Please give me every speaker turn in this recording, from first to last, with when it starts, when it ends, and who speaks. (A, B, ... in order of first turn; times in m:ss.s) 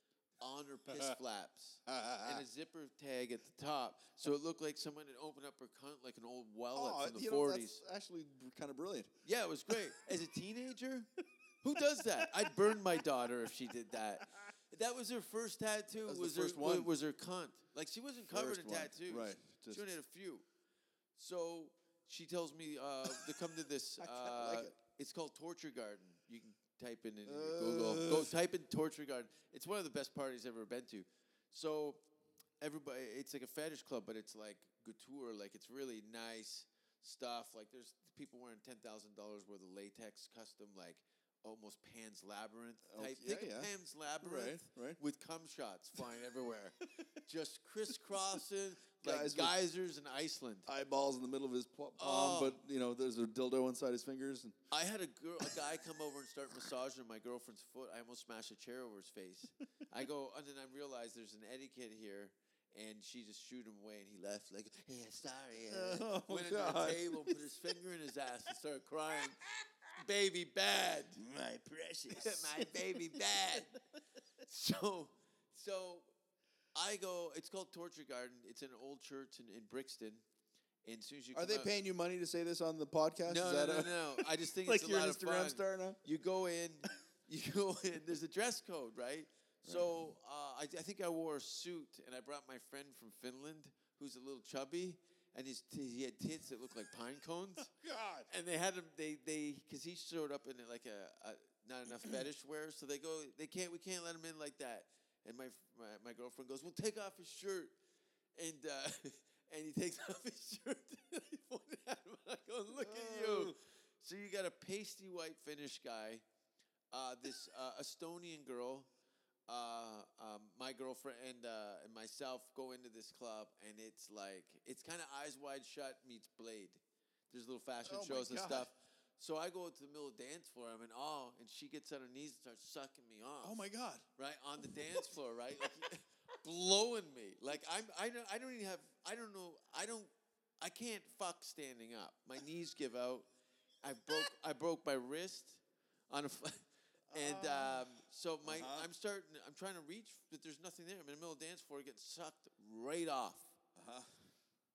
0:00.4-0:07.8 A
0:01.9-0:02.4 B
0:06.7-0:09.1 B
0:09.2-0:11.1 A
0:11.6-0:20.5 A
0:12.2-0:12.8 B
0:16.0-0:16.9 B
0:18.3-0:19.9 B
0:21.2-0:32.0 A
0:24.0-0:24.8 B
0:27.3-0:28.4 B
0:32.6-0:50.7 A
0:42.9-0:45.0 B
0:49.0-0:49.6 B
0:50.7-0:54.6 B
0:52.0-0:52.6 A
0:54.7-1:09.4 A
1:05.7-1:07.4 B
1:09.9-1:11.2 A
1:11.2-1:13.6 B
1:12.1-1:13.8 A
1:14.4-1:16.1 A
1:16.8-1:20.2 A
1:20.8-1:21.7 A
1:21.3-1:26.0 B
1:23.3-1:37.7 A
1:29.6-1:30.0 B
1:37.7-1:38.3 B
1:38.3-1:47.8 A
1:48.4-1:56.2 A
1:52.8-1:53.6 B
1:56.9-1:58.9 A
1:59.5-2:13.6 A
2:07.9-2:08.7 B
2:13.4-2:14.0 B
2:14.2-2:23.3 A
2:14.6-2:15.9 B
2:23.8-2:33.5 A
2:27.1-2:27.9 B
2:28.4-2:28.9 B
2:33.8-2:34.1 B